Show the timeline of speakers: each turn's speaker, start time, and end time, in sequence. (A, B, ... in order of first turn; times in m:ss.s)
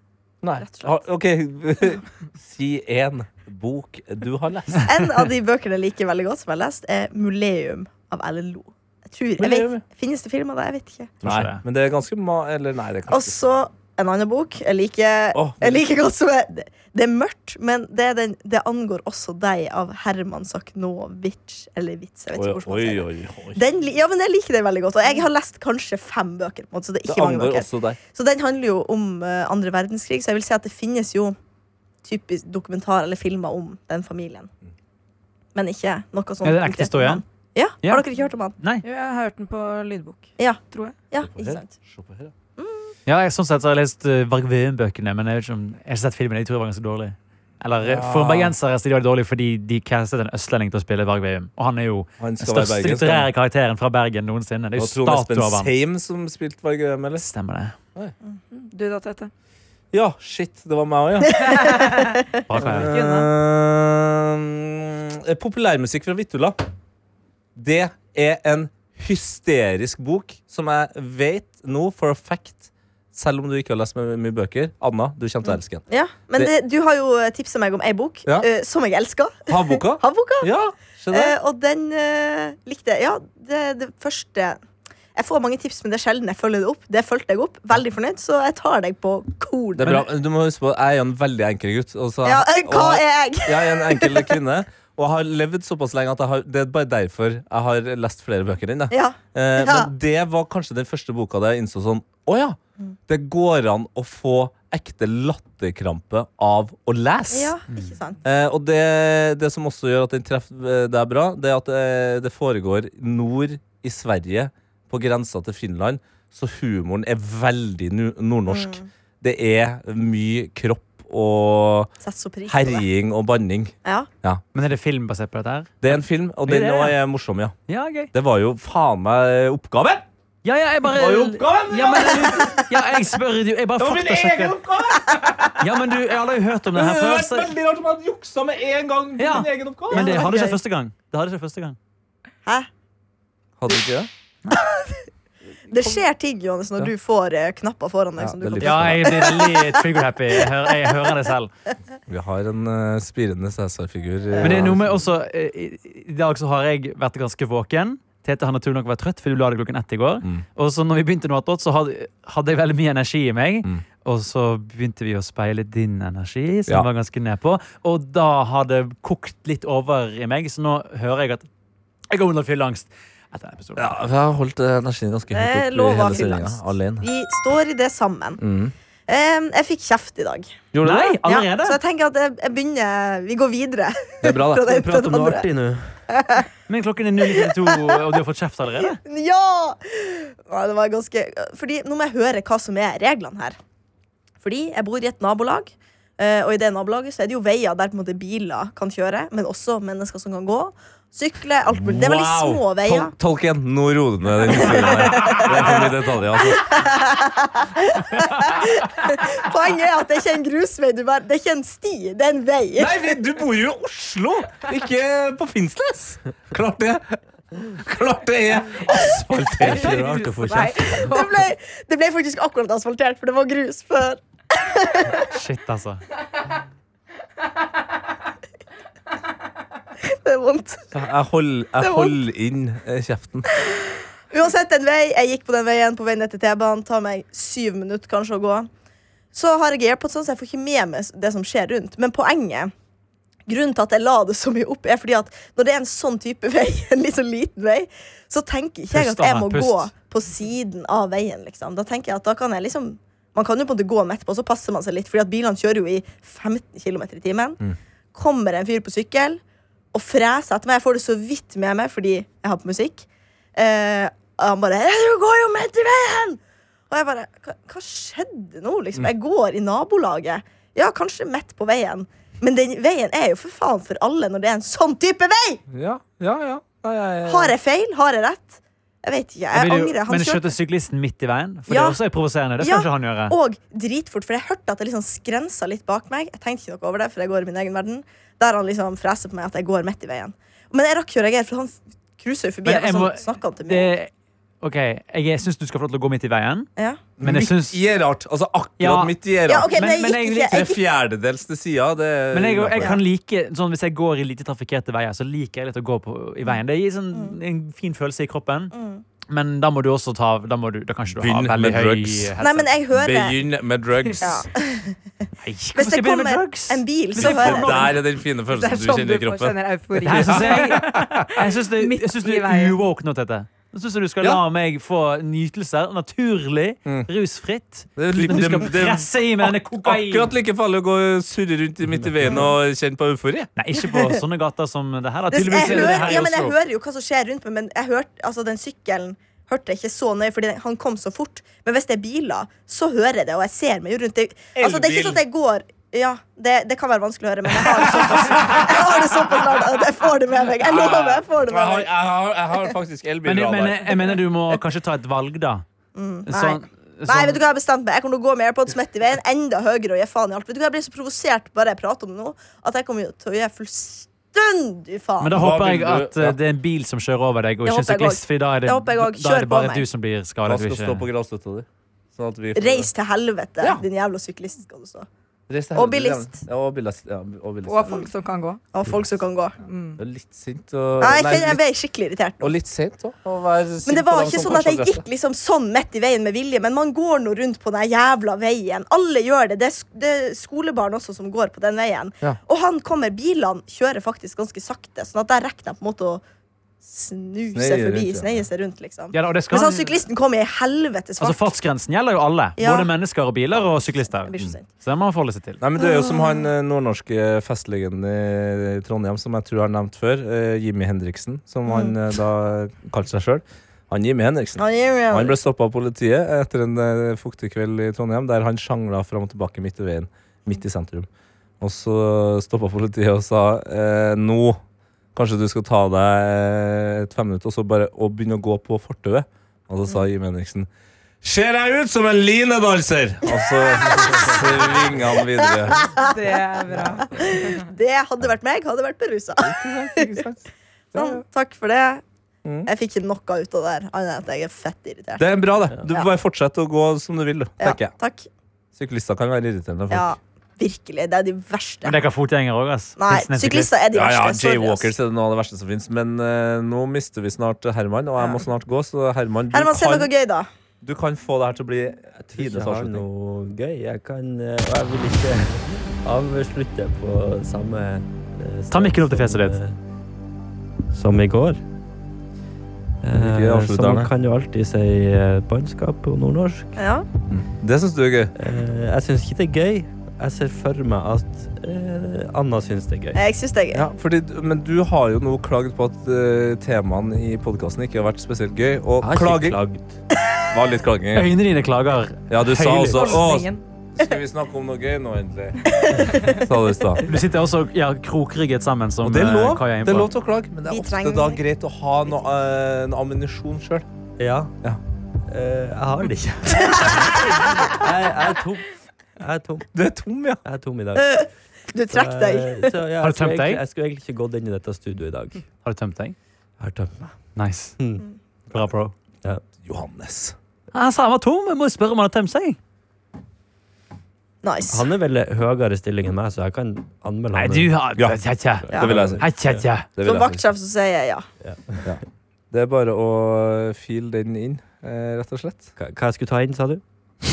0:00.4-0:05.0 A
0:00.6-0:01.0 B
0:04.8-0:11.1 B
0:09.4-0:09.8 A
0:11.2-0:11.6 C
0:11.2-0:13.4 A
0:13.1-0:31.4 B
0:15.3-0:15.8 A
0:22.3-0:23.7 A
0:27.0-0:28.0 A
0:32.0-0:34.5 B
0:35.6-0:38.6 B
0:36.4-0:37.2 C
0:38.6-0:38.8 C
0:38.8-0:41.0 D
0:40.4-0:41.7 B
0:41.2-0:42.3 A
0:42.6-0:42.9 B
0:43.1-0:55.7 C
0:47.8-0:48.6 A
0:52.2-0:53.3 A
0:54.8-0:57.2 A
0:57.2-0:57.8 C
0:58.5-0:59.3 D
0:59.9-1:01.7 A
1:01.4-1:02.0 B
1:01.6-1:02.2 D
1:02.5-1:03.0 C
1:02.5-1:06.6 A
1:02.8-1:03.3 D
1:07.6-1:15.8 A
1:15.4-1:20.5 B
1:19.5-1:21.4 A
1:21.1-1:24.6 B
1:25.2-1:30.0 B
1:29.8-1:47.6 A
1:29.8-1:30.1 C
1:32.2-1:34.3 B
1:38.9-1:39.9 B
1:47.3-1:48.2 B
1:48.2-2:01.9 A
1:58.5-1:58.9 B
2:02.0-2:02.8 B
2:02.5-2:04.4 A
2:04.5-2:05.9 C
2:05.8-2:07.6 A
2:06.5-2:07.0 C
2:07.7-2:08.1 C
2:08.1-2:10.0 A
2:10.4-2:14.6 C
2:10.9-2:12.6 A
2:13.8-2:15.7 A
2:15.6-2:17.5 C
2:16.7-2:20.3 A
2:19.2-2:21.8 C
2:19.9-2:20.6 B
2:23.6-2:24.1 A
2:24.6-2:25.0 B
2:25.7-2:29.8 B
2:28.2-2:29.3 A
2:28.6-2:31.5 C
2:32.1-2:35.0 A
2:34.3-2:34.7 B
2:34.4-2:51.5 C
2:52.1-2:53.9 C
2:53.8-2:57.1 A
2:55.3-2:58.4 B
2:58.4-2:58.7 A
2:59.1-3:00.6 B
3:00.7-3:01.2 A
3:00.8-3:01.8 C
3:01.2-3:05.5 B
3:04.2-3:05.2 A
3:04.7-3:05.8 E
3:06.1-3:06.5 B
3:06.7-3:09.0 C
3:08.9-3:13.6 B
3:14.4-3:23.1 B
3:21.7-3:26.8 A
3:24.5-3:33.0 B
3:32.8-3:41.2 A
3:39.6-3:41.3 D
3:40.9-3:45.3 B
3:45.2-3:46.0 C
3:50.0-3:50.9 B
3:50.9-3:53.5 A
3:51.8-3:52.2 B
3:54.3-3:58.7 B
3:59.3-4:02.7 B
4:03.5-4:17.6 B
4:08.9-4:09.9 C
4:18.1-4:19.4 B
4:19.9-4:26.4 B
4:26.9-4:35.6 B
4:35.7-4:37.5 A
4:37.3-4:40.5 B
4:39.5-4:43.4 C
4:41.7-4:42.0 B
4:42.6-4:53.9 B
4:52.6-4:56.7 C
4:56.8-4:57.0 B
4:57.2-5:03.0 A
4:57.2-4:57.8 C
4:58.8-5:00.6 C
4:59.5-5:00.8 B
5:02.3-5:08.7 C
5:08.7-5:09.0 B
5:09.3-5:12.7 C
5:11.1-5:12.4 A
5:12.4-5:13.4 B
5:12.9-5:14.5 A
5:14.2-5:15.0 B
5:15.4-5:17.9 C
5:15.8-5:17.9 B
5:17.2-5:19.6 A
5:18.5-5:22.8 D
5:20.0-5:30.3 C
5:20.1-5:21.3 A
5:28.0-5:33.5 A
5:33.6-5:36.6 C
5:35.3-5:51.9 B
5:35.5-5:36.2 A
5:44.6-5:45.2 A
5:48.0-5:48.9 A
5:50.6-5:54.2 A
5:53.2-5:55.6 C
5:56.0-6:05.4 B
5:56.3-5:57.4 C
6:05.2-6:11.1 C
6:05.3-6:06.4 A
6:07.6-6:09.9 B
6:10.4-6:12.9 A
6:12.6-6:15.1 B
6:15.5-6:18.0 A
6:15.7-6:16.4 B
6:17.7-6:18.6 D
6:18.7-6:19.6 B
6:19.6-6:20.0 D
6:20.0-6:21.6 A
6:21.0-6:22.5 B
6:22.4-6:25.0 A
6:23.9-6:36.2 B
6:36.8-6:41.5 B
6:37.5-6:38.5 A
6:39.1-6:40.0 C
6:41.2-6:45.6 C
6:42.6-6:42.9 B
6:43.6-6:44.7 B
6:45.6-7:01.1 A
6:45.8-6:46.5 B
6:51.7-6:52.0 B
6:54.6-6:55.4 B
7:01.6-7:04.6 A
7:05.1-7:10.7 A
7:11.2-7:15.9 A
7:13.3-7:20.2 B
7:16.0-7:17.6 D
7:19.4-7:21.2 A
7:20.9-7:22.0 B
7:22.4-7:22.7 A
7:22.7-7:26.1 B
7:25.2-7:27.9 A
7:27.6-7:28.3 B
7:28.8-7:30.2 A
7:29.9-7:32.0 B
7:31.8-7:33.8 C
7:33.0-7:34.9 B
7:33.9-7:40.1 A
7:39.5-7:40.5 B
7:40.8-7:43.1 A
7:42.2-7:49.8 E
7:48.7-7:49.6 C
7:50.9-7:51.6 E
7:53.0-7:56.8 E
7:53.1-7:54.1 A
7:56.8-7:57.1 B
7:57.3-7:58.3 A
7:58.4-8:03.2 E
8:03.2-8:03.9 B
8:03.7-8:09.6 A
8:09.0-8:10.0 E
8:10.5-8:11.3 A
8:11.1-8:13.2 C
8:12.3-8:17.0 A
8:12.9-8:13.6 D
8:15.8-8:16.4 B
8:17.0-8:20.1 C
8:19.0-8:23.9 A
8:20.7-8:21.4 B
8:24.2-8:24.5 E
8:25.3-8:28.7 E
8:29.2-8:29.7 E
8:29.7-8:30.4 A
8:30.4-8:31.2 E
8:31.0-8:32.7 B
8:31.9-8:35.4 E
8:33.0-8:33.6 C
8:35.6-8:36.2 C
8:36.6-8:37.2 E
8:37.4-8:37.8 C
8:37.8-8:38.1 E
8:38.5-8:39.0 C
8:39.6-8:40.4 A
8:40.7-8:42.6 C
8:44.4-8:44.9 B
8:44.7-8:47.8 E
8:47.3-8:49.9 C
8:48.6-8:49.6 E
8:48.7-8:49.2 A
8:48.7-8:49.0 B
8:49.9-8:50.4 A
8:50.0-8:51.3 B
8:51.4-8:52.0 E
8:52.5-8:55.7 A
8:55.8-8:56.8 E